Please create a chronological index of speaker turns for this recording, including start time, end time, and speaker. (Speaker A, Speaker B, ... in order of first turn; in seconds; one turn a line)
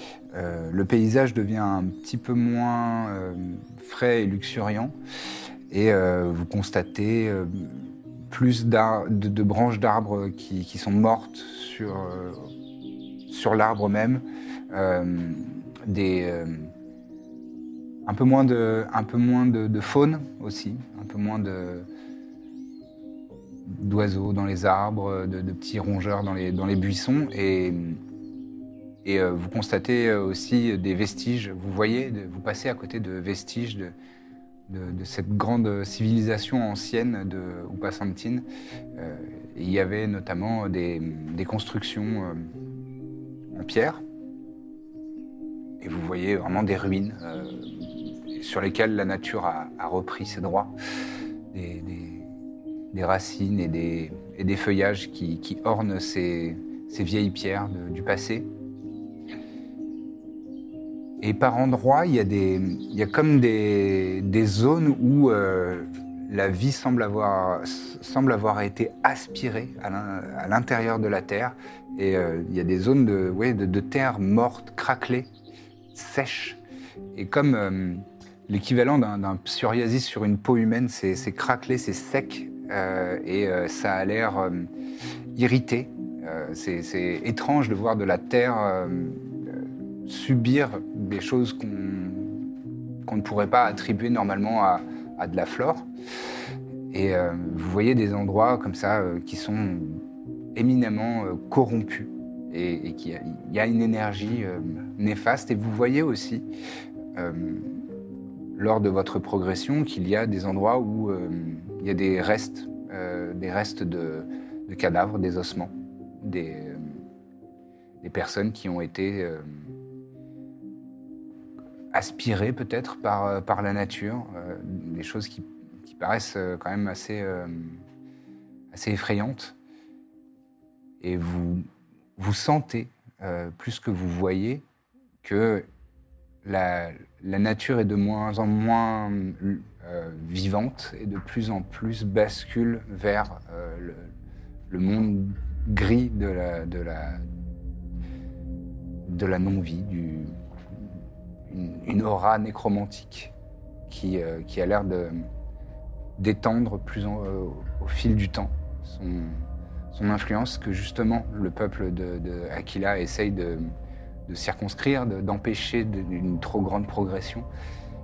Speaker A: 0.3-5.0
Speaker A: 5.7-12.5
Speaker A: 13.3-16.7
Speaker A: 18.1-21.9
Speaker A: 23.7-28.0
Speaker A: 29.1-33.9
Speaker A: 34.7-38.5
Speaker A: 39.0-42.5
Speaker A: 43.5-44.0
Speaker A: 45.8-50.7
Speaker A: 51.5-52.3
Speaker A: 52.9-58.5
Speaker A: 61.2-75.3
Speaker A: 75.9-76.6
Speaker A: 77.1-84.7
Speaker A: 85.3-92.4
Speaker A: 93.0-95.9
Speaker A: 96.9-100.0
Speaker A: 100.5-106.5
Speaker A: 107.2-107.8
Speaker A: 108.5-117.0
Speaker A: 118.0-119.7
Speaker A: 121.9-127.8
Speaker A: 128.7-129.6
Speaker A: 131.0-134.7
Speaker A: 135.2-135.7
Speaker A: 136.4-144.1
Speaker A: 144.7-147.2
Speaker A: 149.1-151.0
Speaker A: 151.5-153.3
Speaker A: 153.9-155.3
Speaker A: 156.2-163.7
Speaker A: 164.3-167.5